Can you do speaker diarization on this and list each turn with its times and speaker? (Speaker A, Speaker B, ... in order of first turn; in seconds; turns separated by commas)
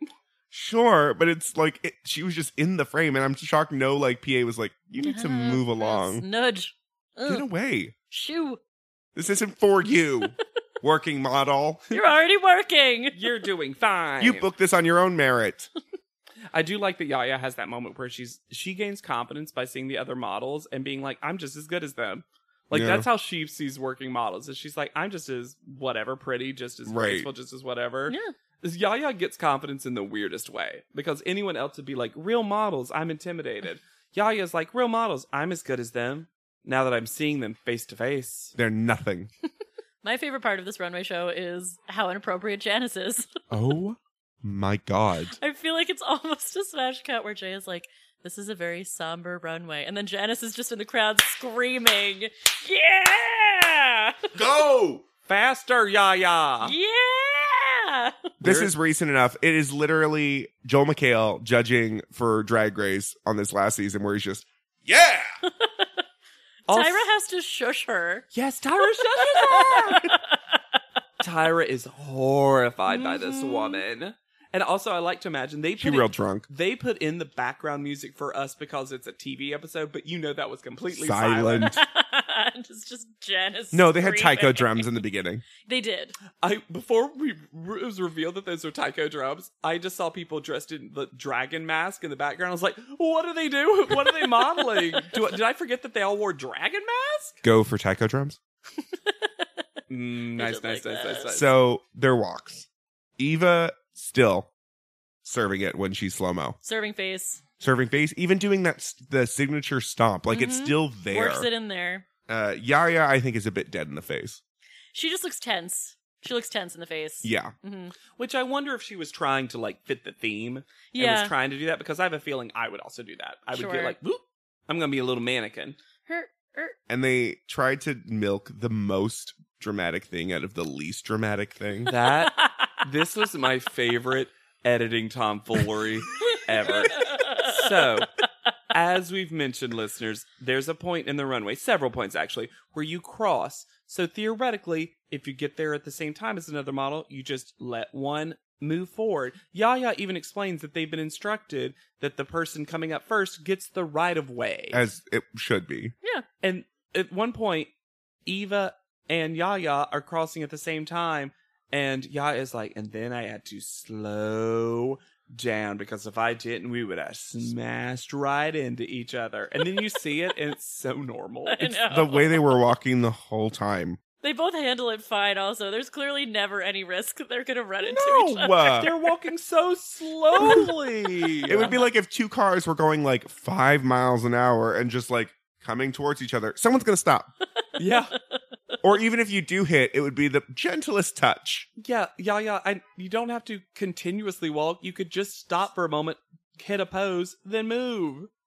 Speaker A: 0.5-6.2, Speaker B: 5.0-7.5, Speaker A: 7.3-7.9, Speaker B: 8.1-8.6, Speaker A: 9.2-11.9, Speaker B: 11.9-13.2, Speaker C: 13.1-14.5, Speaker A: 14.2-15.7, Speaker C: 16.5-38.5, Speaker A: 22.7-23.1, Speaker A: 26.9-27.3, Speaker B: 28.1-28.3, Speaker A: 38.5-39.3, Speaker B: 40.0-43.3, Speaker A: 43.5-45.4, Speaker B: 45.4-54.3, Speaker A: 54.4-55.0, Speaker C: 55.3-56.8, Speaker B: 56.6-58.3, Speaker A: 58.4-65.3, Speaker C: 58.4-58.7, Speaker B: 65.4-65.9, Speaker C: 66.7-67.1, Speaker B: 66.7-68.3, Speaker C: 68.3-70.1, Speaker B: 69.0-70.6, Speaker C: 71.2-81.8, Speaker B: 72.9-73.8, Speaker A: 75.8-76.5, Speaker A: 80.9-81.8, Speaker B: 81.6-84.9, Speaker A: 83.7-85.4, Speaker B: 85.6-86.2, Speaker C: 86.4-97.4, Speaker A: 97.4-98.4, Speaker B: 99.1-99.5, Speaker C: 99.9-101.5, Speaker B: 100.4-101.4, Speaker A: 101.3-102.7, Speaker A: 103.2-104.5, Speaker A: 105.2-106.6, Speaker B: 106.6-107.4, Speaker A: 107.6-111.5, Speaker B: 110.3-112.0, Speaker A: 112.3-114.4, Speaker B: 114.9-117.9, Speaker A: 117.2-117.5, Speaker C: 118.2-125.8, Speaker B: 120.9-121.3, Speaker B: 123.5-124.0, Speaker B: 126.0-126.8, Speaker A: 126.9-131.9, Speaker C: 131.9-138.1, Speaker B: 132.4-132.8, Speaker B: 136.3-137.7, Speaker C: 138.7-154.8, Speaker A: 154.7-155.9, Speaker C: 156.4-157.7, Speaker C: 158.3-171.8, Speaker B: 171.5-172.5, Speaker A: 171.9-174.0, Speaker B: 174.2-178.8, Speaker A: 177.8-178.9, Speaker C: 178.7-181.8, Speaker B: 180.4-180.7, Speaker B: 181.3-181.8, Speaker A: 181.5-187.3, Speaker C: 187.8-188.2, Speaker A: 188.8-191.7, Speaker C: 191.8-198.3